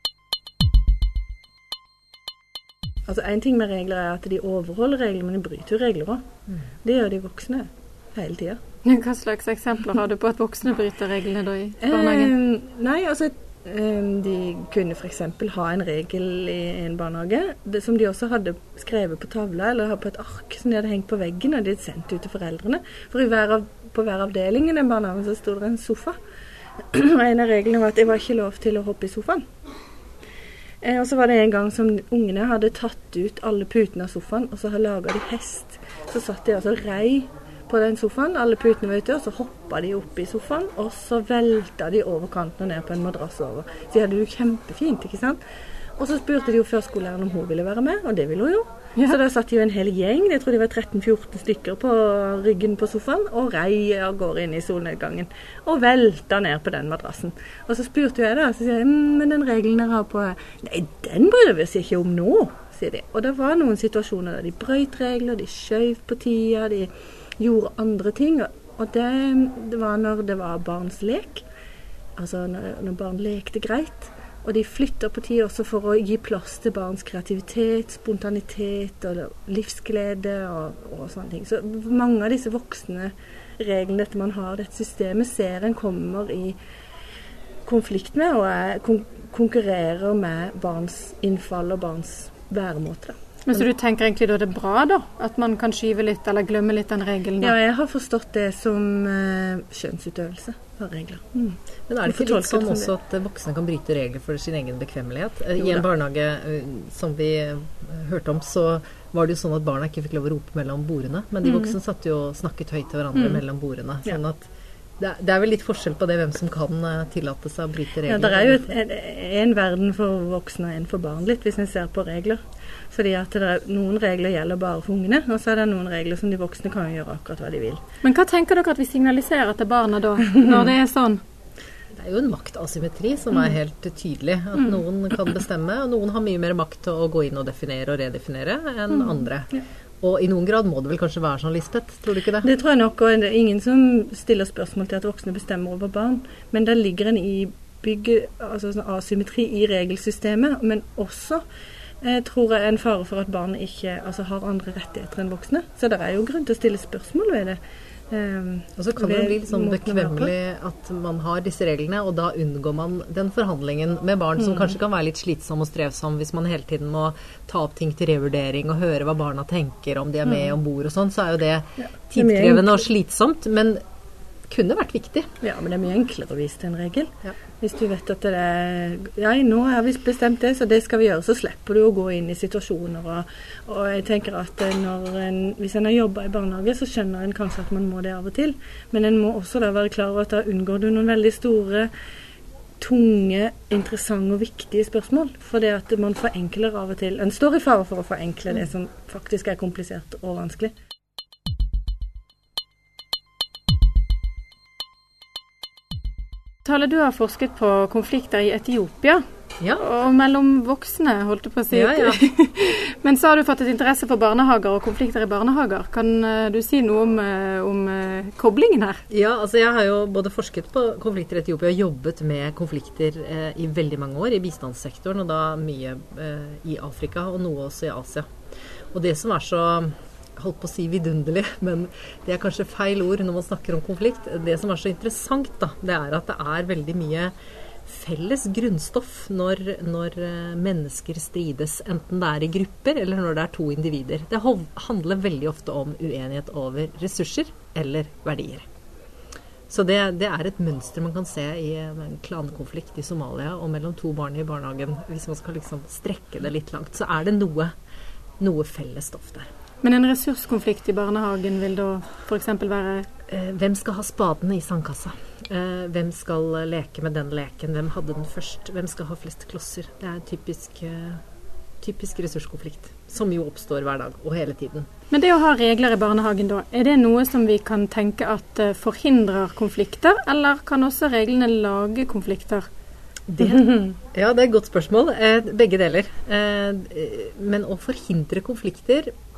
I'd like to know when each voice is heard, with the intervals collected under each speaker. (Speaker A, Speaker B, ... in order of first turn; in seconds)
Speaker A: 3.1-6.2, 6.8-8.6, 11.8-26.1, 26.9-29.4, 30.8-45.4, 46.0-71.4, 72.2-86.6, 87.7-93.2, 97.4-102.9, 105.6-105.8, 111.5-111.7, 118.0-127.8, 142.4-151.4, 152.0-157.6, 158.1-160.3, 171.8-172.8, 175.4-191.9, 192.8-200.7
Speaker B: 8.8-12.3, 93.5-97.5, 128.0-131.2, 206.6-219.0, 259.8-263.1, 275.1-282.7
Speaker C: 101.9-118.7, 131.9-142.5, 158.8-173.8, 174.5-175.3, 211.7-212.3, 219.1-228.3, 228.9-237.3, 237.8-248.6, 249.7-257.7, 258.4-259.5, 263.3-271.2, 271.8-274.9, 283.3-289.1